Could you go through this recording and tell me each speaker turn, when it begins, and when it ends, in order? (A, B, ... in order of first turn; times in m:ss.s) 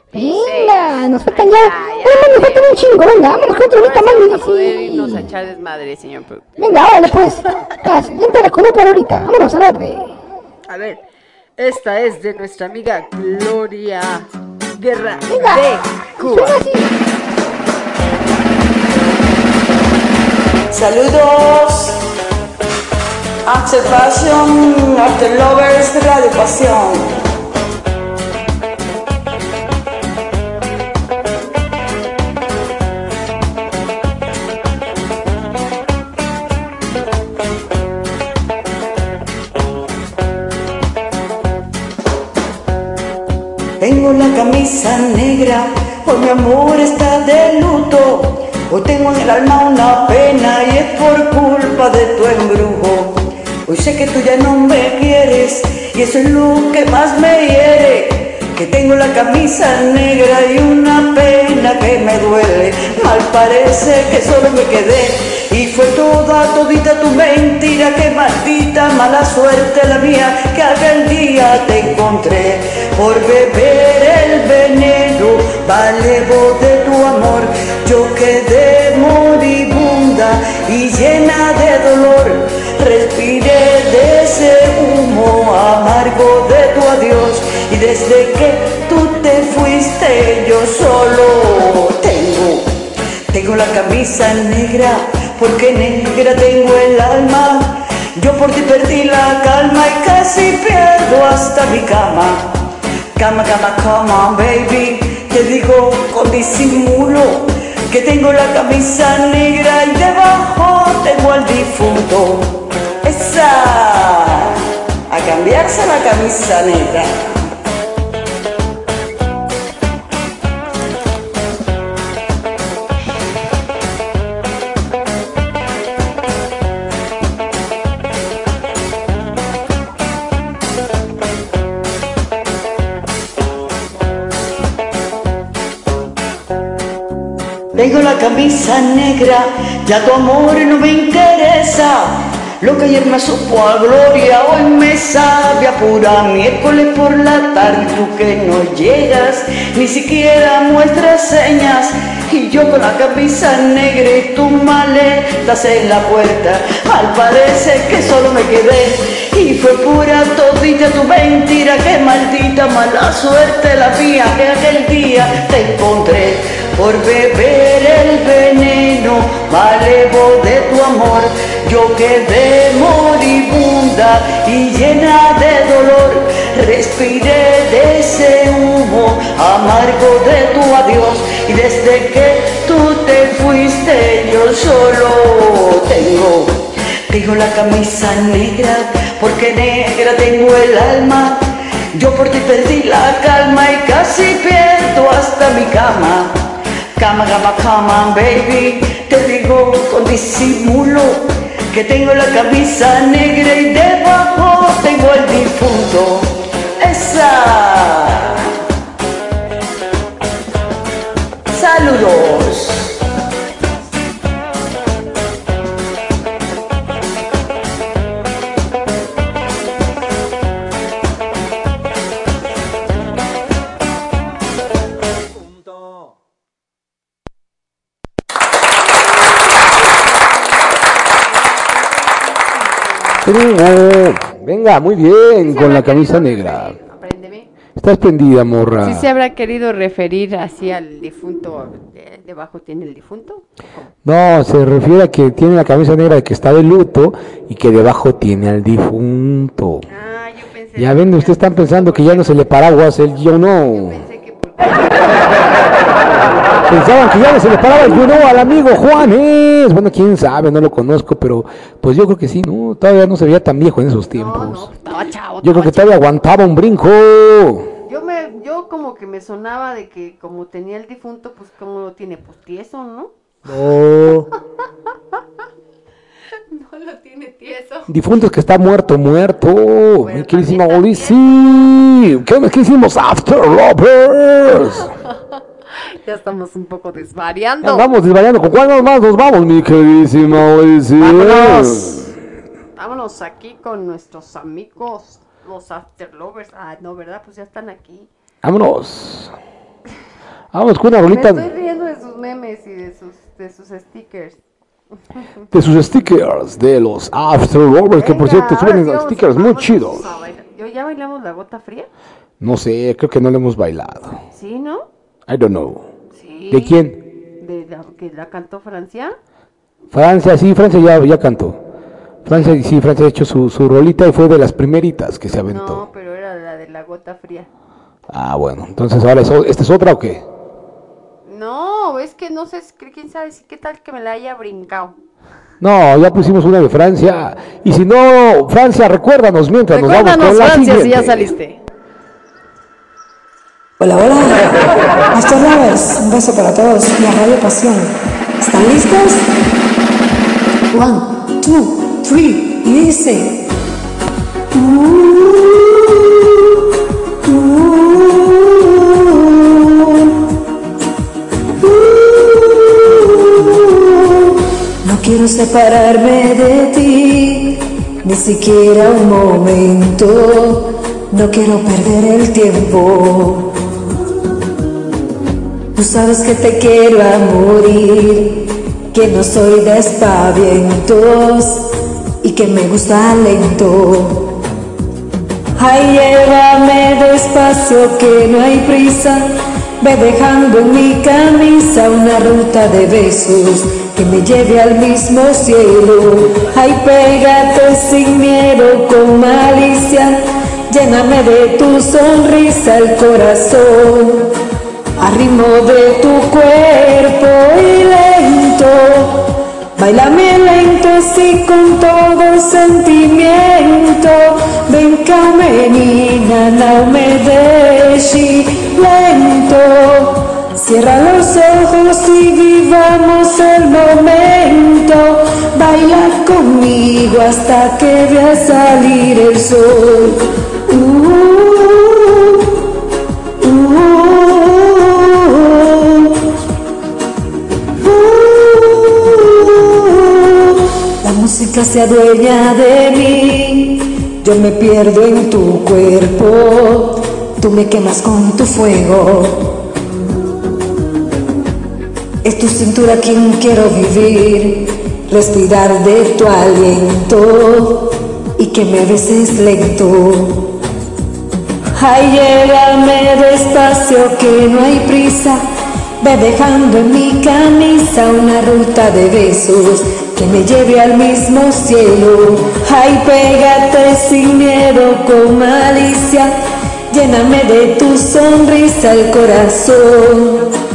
0:00.1-0:05.3 A
0:00.2-0:02.8 B
0:03.8-0:06.5 B
0:06.6-0:10.1 A
0:10.7-0:11.0 B
0:11.6-0:16.6 B
0:15.3-0:16.9 A
0:20.7-0:22.0 C
0:23.4-0:27.1 C
0:43.8-1:32.7 C
1:33.3-1:42.5 C
1:43.2-1:54.6 C
1:55.1-1:57.3 C
2:17.7-3:11.4 C
3:11.9-3:16.4 C
3:17.0-3:28.4 C
3:31.5-3:33.0 C
3:50.4-3:53.3 B
3:53.2-3:56.8 D
3:55.4-3:57.5 B
3:57.8-3:59.1 D
3:58.8-4:03.4 B
4:04.0-4:09.9 D
4:09.9-4:16.0 B
4:10.8-4:14.0 D
4:16.7-4:24.7 D
4:24.1-4:26.0 B
4:25.4-4:27.7 D
4:27.9-4:33.1 B
4:33.5-4:34.3 D
4:36.5-4:37.9 B
4:37.9-4:44.9 D
4:40.0-4:41.2 B
4:46.0-4:47.9 B
4:47.6-4:52.1 D
4:51.0-4:52.1 B
4:52.8-4:58.1 B
4:58.4-4:59.3 D
5:00.5-5:01.5 D
5:01.1-5:04.4 B
5:05.5-5:10.0 D
5:08.0-5:11.9 B
5:12.4-5:14.2 D
5:14.3-5:14.9 B
5:15.3-5:15.9 D
5:16.1-5:16.8 B
5:16.5-5:17.0 D
5:17.4-5:19.2 B
5:19.9-5:21.6 D
5:22.3-5:25.8 D
5:25.5-5:27.5 B
5:28.1-5:30.2 D
5:31.3-5:35.0 B
5:35.6-5:41.3 D
5:39.7-5:41.6 B
5:43.8-5:49.2 E
5:50.7-5:53.4 E
5:54.5-5:56.1 E
5:57.3-6:00.2 E
6:01.6-6:13.5 E
6:15.8-6:18.4 E
6:18.9-6:21.7 E
6:22.2-6:24.3 E
6:25.6-6:29.3 E
6:29.8-6:40.2 E
6:40.7-6:44.3 E
6:45.0-7:12.5 E
7:13.4-7:16.3 E
7:17.8-7:20.4 E
7:21.0-7:29.5 E
7:32.2-7:40.5 E
7:41.8-7:45.4 E
7:46.0-7:56.3 E
7:56.9-8:00.5 E